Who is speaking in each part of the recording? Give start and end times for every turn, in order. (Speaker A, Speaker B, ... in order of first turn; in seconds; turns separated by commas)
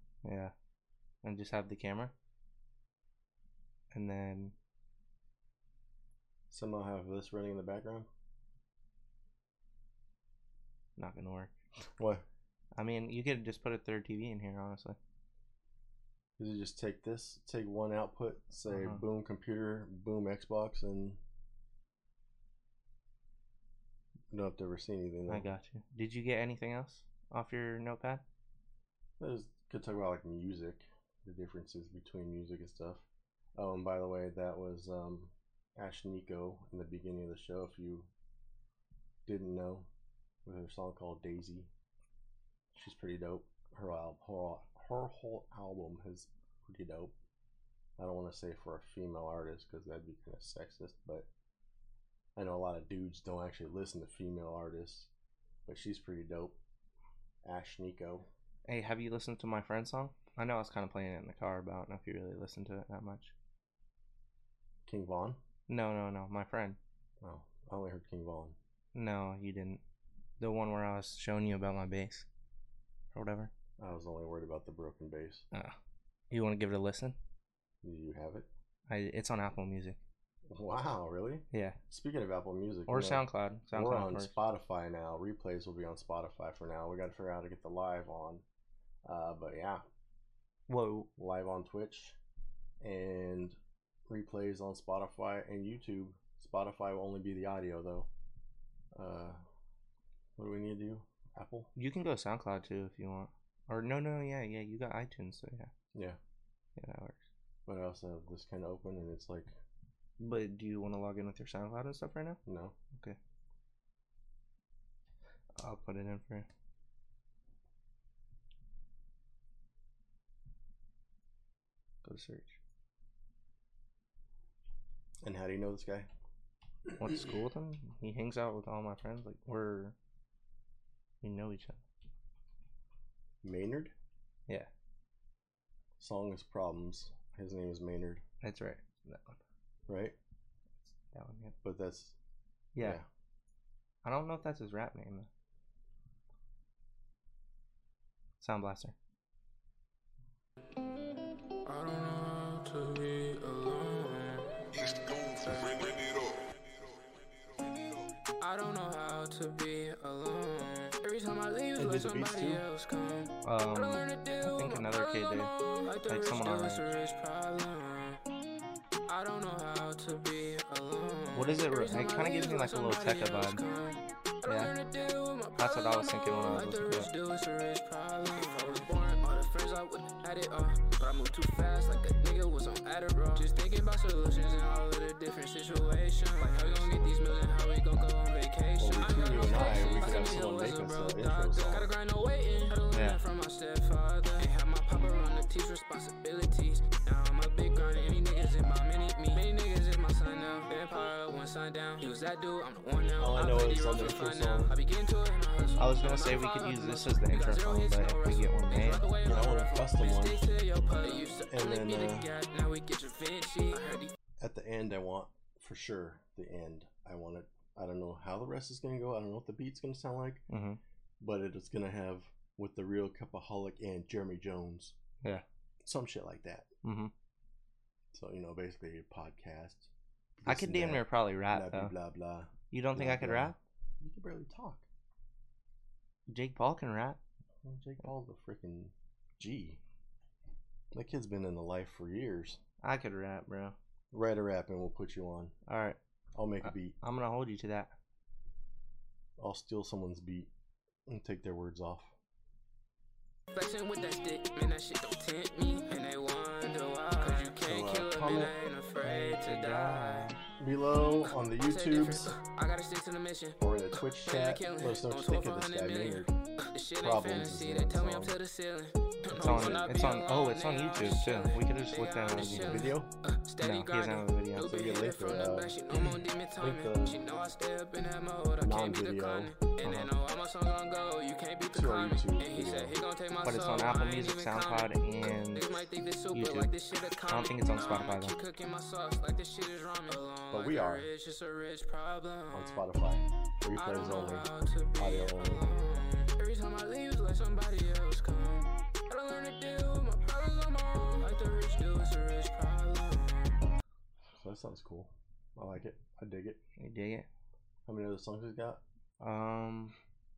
Speaker A: 0.2-0.5, Speaker A: 1.2-2.1, Speaker A: 3.9-4.5, Speaker B: 6.5-8.1, Speaker A: 11.0-11.5, Speaker B: 12.0-12.2, Speaker A: 12.7-15.0, Speaker B: 16.4-21.2, Speaker A: 18.7-19.0, Speaker B: 24.3-25.5, Speaker A: 25.3-28.2, Speaker B: 29.2-38.1, Speaker B: 39.2-39.9, Speaker B: 40.4-41.7, Speaker B: 42.7-47.1, Speaker B: 48.0-51.3, Speaker B: 52.4-55.1, Speaker B: 55.6-56.6, Speaker B: 57.4-58.3, Speaker A: 58.7-63.3, Speaker B: 64.8-65.4, Speaker A: 65.7-66.8, Speaker B: 67.2-68.5, Speaker A: 68.9-69.8, Speaker A: 70.4-72.3, Speaker A: 73.1-73.5, Speaker B: 73.8-75.4, Speaker A: 76.3-77.2, Speaker B: 77.8-78.5, Speaker A: 78.9-80.0, Speaker B: 80.5-88.4, Speaker A: 81.5-81.8, Speaker A: 82.9-84.3, Speaker B: 89.0-89.8, Speaker A: 90.7-91.1, Speaker B: 91.2-92.2, Speaker B: 92.8-93.6, Speaker B: 94.1-98.1, Speaker B: 98.9-99.4, Speaker B: 100.4-101.7, Speaker A: 101.8-105.7, Speaker A: 106.8-107.2, Speaker B: 107.7-109.5, Speaker A: 110.2-112.4, Speaker B: 112.5-112.8, Speaker A: 115.6-116.5, Speaker A: 122.0-122.6, Speaker B: 125.2-126.1, Speaker A: 126.9-129.9, Speaker A: 131.2-131.8, Speaker B: 133.4-133.9, Speaker B: 136.0-138.2, Speaker A: 138.4-139.4, Speaker B: 139.9-140.2, Speaker A: 140.9-141.6, Speaker B: 141.6-142.1, Speaker A: 142.7-143.0, Speaker B: 142.8-143.1, Speaker A: 144.0-145.3, Speaker A: 148.4-148.9, Speaker C: 151.6-154.6, Speaker D: 154.7-158.1, Speaker C: 155.4-156.0, Speaker C: 158.4-168.2, Speaker B: 161.8-162.6, Speaker A: 163.4-165.5, Speaker A: 166.1-166.9, Speaker C: 169.1-214.1, Speaker A: 171.3-173.6, Speaker A: 174.4-174.7, Speaker A: 175.6-177.1, Speaker B: 188.8-191.9, Speaker A: 192.9-193.2, Speaker B: 203.2-204.7, Speaker A: 205.8-209.1, Speaker B: 209.2-210.5, Speaker B: 211.3-212.3, Speaker B: 214.4-220.4, Speaker A: 220.5-220.8, Speaker B: 221.2-224.9, Speaker B: 225.8-226.7, Speaker A: 226.8-227.1, Speaker B: 228.1-234.8, Speaker A: 230.4-231.9, Speaker A: 232.7-233.6, Speaker A: 236.3-237.2, Speaker B: 237.6-239.8, Speaker B: 240.9-242.6, Speaker A: 242.8-243.8, Speaker B: 244.1-245.5, Speaker A: 245.7-246.0, Speaker B: 246.3-246.9, Speaker A: 246.6-247.9, Speaker B: 249.4-250.5, Speaker B: 251.1-252.1, Speaker C: 253.5-260.3, Speaker B: 257.4-258.5, Speaker A: 259.0-260.4, Speaker B: 260.6-262.3, Speaker C: 261.6-292.8, Speaker B: 263.6-266.3, Speaker B: 267.0-268.4, Speaker A: 269.3-272.9, Speaker B: 269.4-269.8, Speaker B: 272.4-273.1, Speaker A: 273.6-274.8, Speaker B: 274.6-277.2, Speaker B: 278.6-279.5, Speaker A: 279.8-280.1, Speaker B: 281.7-283.0, Speaker A: 283.4-285.7, Speaker A: 286.3-286.7, Speaker A: 287.3-288.4, Speaker B: 290.5-291.1, Speaker B: 292.5-295.8, Speaker C: 293.7-303.6, Speaker B: 304.4-306.6, Speaker A: 306.8-307.3, Speaker B: 307.9-308.8, Speaker A: 309.2-309.9